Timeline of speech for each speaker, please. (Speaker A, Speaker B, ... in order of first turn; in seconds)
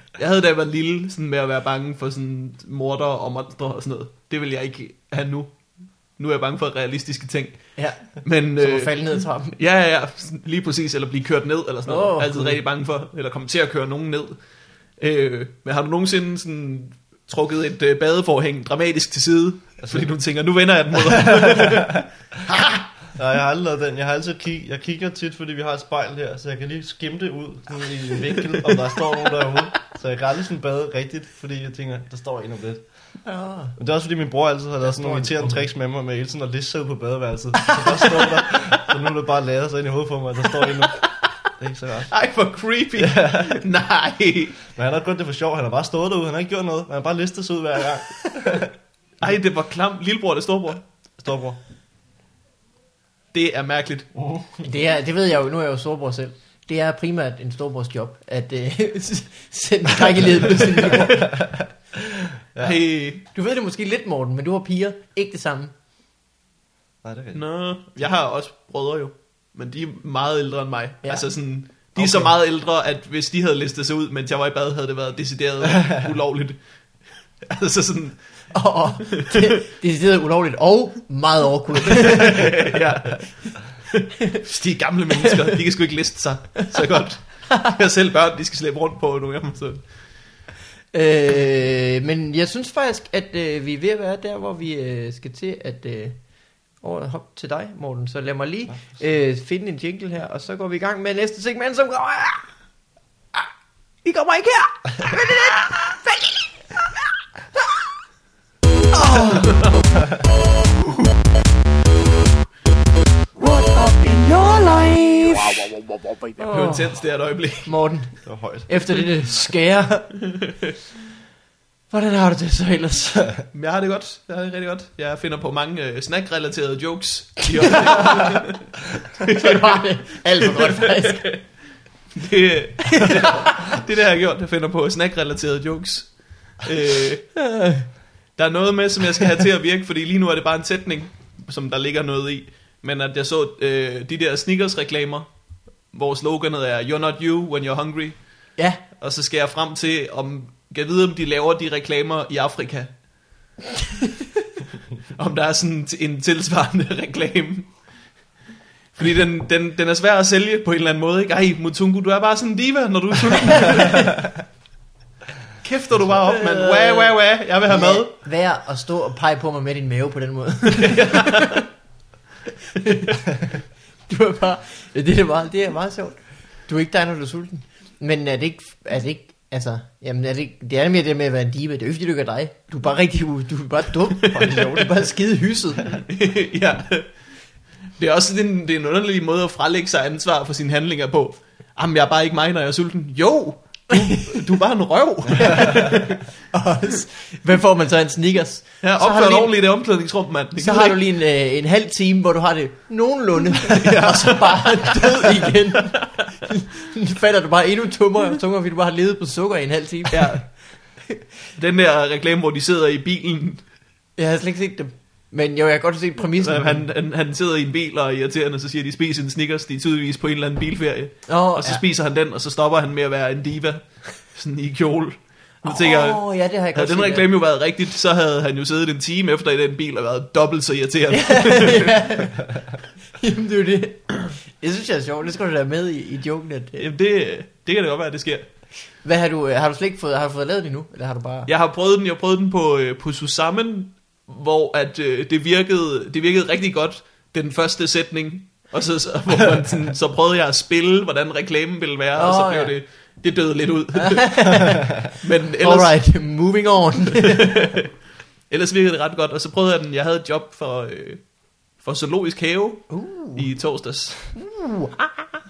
Speaker A: 0.1-22.1, 42.1-44.6, 49.2-50.9, 53.3-54.1, 62.6-63.2, 67.3-79.5, 82.2-90.1, 109.4-109.7, 116.4-118.0, 123.5-137.6, 138.3-153.5, 155.1-158.3, 158.9-164.2, 165.6-168.1, 186.0-196.2, 198.8-201.0, 203.8-206.3, 210.1-211.0, 211.6-213.7, 216.4-232.0, 236.8-238.7, 241.5-256.3, 258.5-264.4
Speaker B: 7.8-9.6, 11.9-12.6, 33.2-33.8, 34.9-35.3, 54.6-61.3, 63.3-65.7, 71.0-72.0, 78.5-82.6, 90.9-102.7, 104.0-106.8, 108.9-109.7, 113.4-115.8, 116.4-120.5, 121.9-123.4, 129.4-131.4, 133.1-133.5, 137.4-137.9, 148.6-148.8, 166.2-171.4, 172.9-173.2, 174.1-185.9, 195.4-199.7, 200.6-210.9, 214.2-216.9, 221.3-221.8, 225.7-227.2, 231.3-232.6, 233.2-236.8, 239.0-241.5, 252.2-252.8, 254.0-254.9, 255.6-257.6, 262.9-263.7, 264.3-265.3
Speaker C: 19.8-20.2, 23.1-42.3, 43.0-43.5, 44.7-48.7, 51.1-51.6, 54.1-54.6, 60.9-61.7, 62.5-62.8, 67.0-68.0, 72.0-72.3, 98.7-99.0, 118.2-119.0, 165.9-166.2, 184.3-184.9